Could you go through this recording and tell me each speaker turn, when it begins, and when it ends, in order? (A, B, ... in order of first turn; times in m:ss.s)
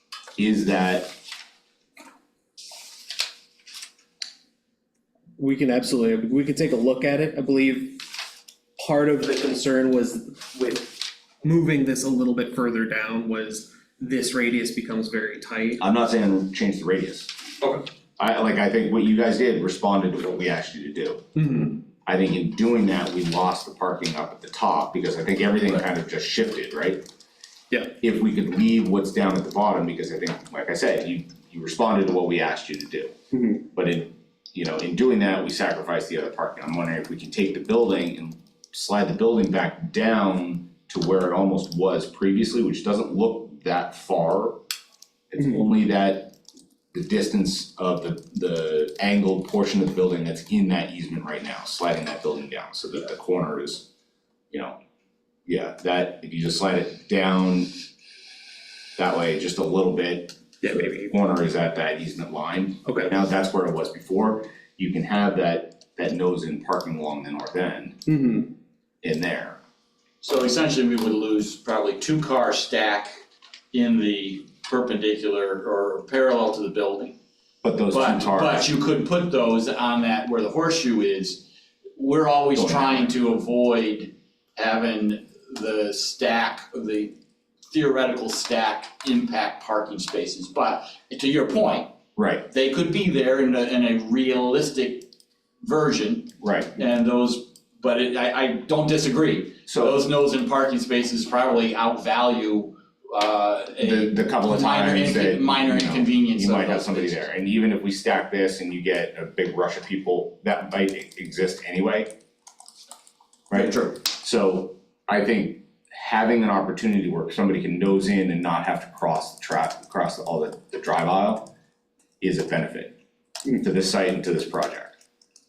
0:00.4-0:01.1 A
0:05.4-0:08.1 B
0:08.8-0:15.8 B
0:15.8-0:17.3 A
0:18.2-0:21.2 A
0:21.4-0:21.8 B
0:22.0-0:27.0 A
0:28.0-0:33.1 A
0:33.3-0:33.6 B
0:33.7-0:44.6 A
0:45.3-0:46.3 A
0:46.9-0:53.9 A
0:55.4-0:57.7 A
0:59.0-1:08.0 A
1:00.6-1:01.1 B
1:08.1-1:08.5 B
1:09.0-1:09.6 A
1:10.2-1:13.2 C
1:13.7-1:17.2 C
1:17.6-1:18.7 A
1:17.9-1:21.4 C
1:22.0-1:27.1 C
1:22.6-1:23.1 A
1:27.7-1:31.9 C
1:32.2-1:32.4 A
1:32.5-1:35.1 C
1:35.6-1:47.2 C
1:36.4-1:36.8 A
1:39.7-1:40.0 A
1:43.8-1:52.1 A
1:53.5-2:01.5 A
1:53.5-1:54.0 C
2:02.2-2:03.0 A
2:03.6-2:05.0 A